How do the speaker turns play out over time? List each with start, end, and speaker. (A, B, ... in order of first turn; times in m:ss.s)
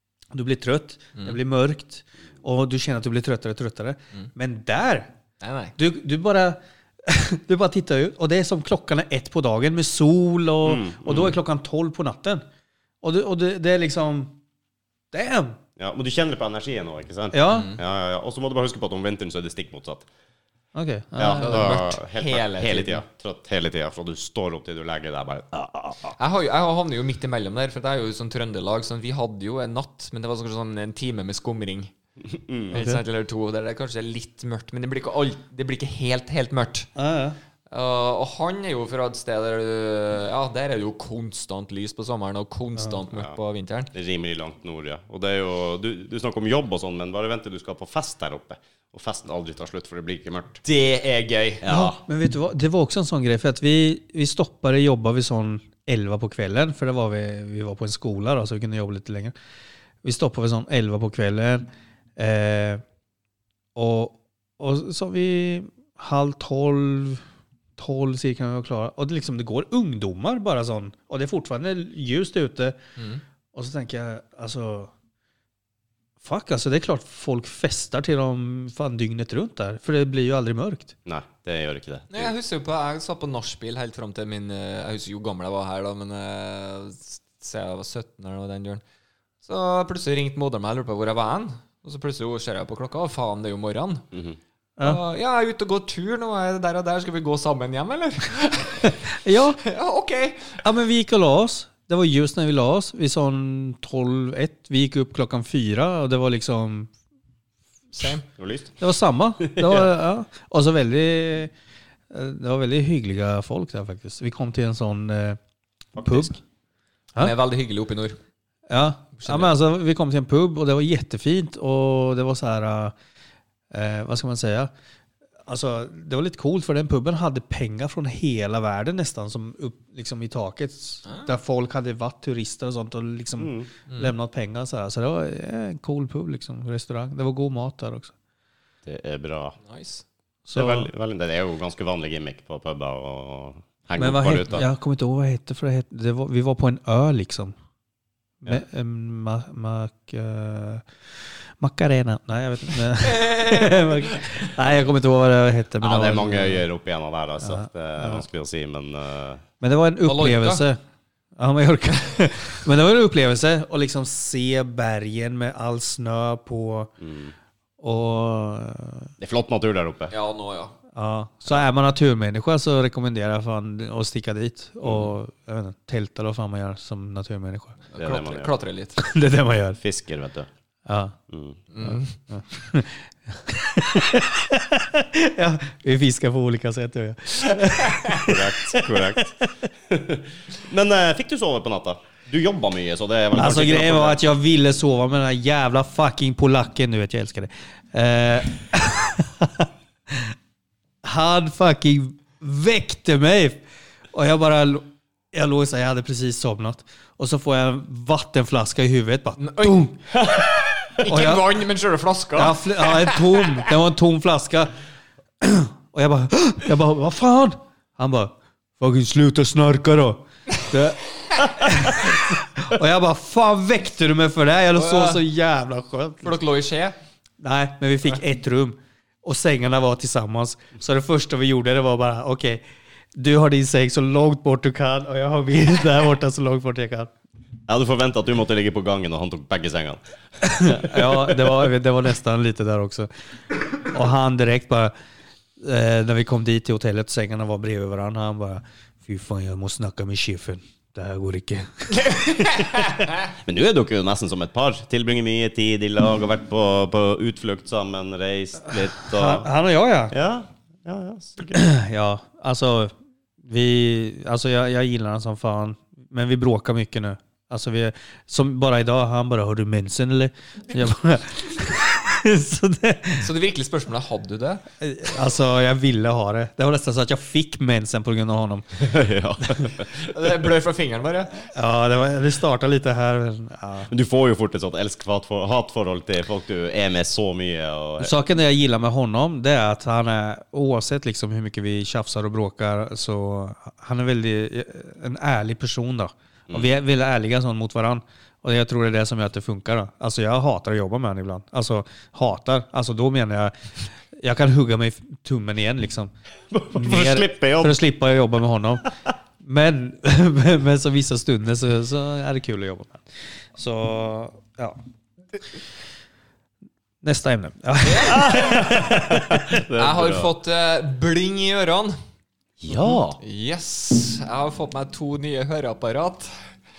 0:00.3-0:05.1 A
0:05.4-0:05.8 B
0:05.8-0:12.4 A
0:10.6-0:11.4 C
0:13.0-0:14.4 A
0:15.1-0:15.6 A
0:15.8-0:20.1 C
0:17.3-0:17.7 A
0:17.5-0:17.8 B
0:20.8-0:21.8 A
0:21.2-0:25.5 C
0:21.3-0:23.0 B
0:25.5-0:26.1 A
0:26.2-0:31.9 B
0:32.3-0:32.7 C
0:32.7-0:36.9 B
0:32.7-0:33.0 A
0:37.0-0:37.4 A
0:37.7-0:43.9 B
0:43.9-0:50.6 C
0:50.6-0:51.6 B
0:51.6-0:52.0 C
0:51.7-0:59.3 A
1:00.0-1:01.6 A
1:02.2-1:02.8 A
1:03.8-1:07.2 A
1:07.8-1:12.8 A
1:13.0-1:13.2 B
1:13.5-1:14.9 A
1:16.2-1:21.0 A
1:21.1-1:22.3 C
1:22.1-1:28.8 B
1:29.4-1:34.0 B
1:34.8-1:39.0 B
1:39.0-1:39.6 A
1:39.6-1:40.6 B
1:40.6-1:46.9 A
1:47.9-1:48.2 B
1:48.4-1:48.7 C
1:48.8-1:51.5 A
1:49.4-1:49.9 C
1:52.1-1:55.4 A
1:56.0-1:56.3 C
1:56.0-1:56.4 A
1:57.2-1:58.2 B
1:58.7-2:03.0 A
1:59.2-1:59.5 B
2:03.7-2:04.7 A
2:05.5-2:18.1 A
2:11.0-2:11.3 B
2:13.4-2:13.7 C
2:18.9-2:19.6 C
2:19.6-2:20.0 B
2:20.5-2:20.9 A
2:20.5-2:24.7 C
2:24.0-2:27.5 A
2:28.4-2:30.9 A
2:31.6-2:36.6 A
2:33.0-2:34.5 B
2:35.8-2:39.4 C
2:37.4-2:38.2 A
2:39.6-2:40.8 A
2:40.0-2:40.6 B
2:41.4-2:46.9 A
2:47.0-2:47.3 C
2:47.8-2:49.1 A
2:49.2-2:50.1 C
2:50.1-2:50.7 B
2:50.9-2:57.8 A
2:54.8-2:55.1 C
2:57.9-2:59.0 B
2:58.0-2:58.5 C
2:59.0-2:59.8 A
2:59.8-3:00.5 C
3:00.9-3:01.2 A
3:01.3-3:01.6 C
3:01.7-3:02.1 B
3:01.8-3:09.5 A
3:07.9-3:08.2 B
3:08.1-3:09.3 C
3:09.9-3:14.2 C
3:13.4-3:20.4 A
3:21.0-3:23.6 A
3:24.1-3:30.0 A
3:29.4-3:29.9 B
3:31.0-3:33.7 B
3:31.1-3:31.6 A
3:32.4-3:34.7 A
3:35.4-3:46.4 A
3:44.8-3:45.2 B
3:46.2-3:47.0 B
3:47.4-3:52.6 A
3:53.2-3:57.1 A
3:57.7-4:01.5 C
4:00.4-4:03.1 A
4:03.8-4:04.9 A
4:05.6-4:12.9 A
4:11.9-4:13.2 B
4:13.4-4:19.5 C
4:19.1-4:20.1 A
4:20.1-4:21.6 C
4:21.5-4:33.3 A
4:33.2-4:34.6 B
4:34.8-4:38.9 A
4:38.8-4:40.3 C
4:40.1-4:41.4 B
4:41.5-4:43.9 A
4:43.9-4:48.1 C
4:48.0-5:06.1 A
5:06.5-5:07.8 C
5:06.7-5:08.9 A
5:09.4-5:14.8 A
5:17.0-5:19.6 A
5:17.8-5:18.6 B
5:18.1-5:20.3 C
5:19.8-5:22.0 B
5:22.6-5:23.2 C
5:23.2-5:26.3 B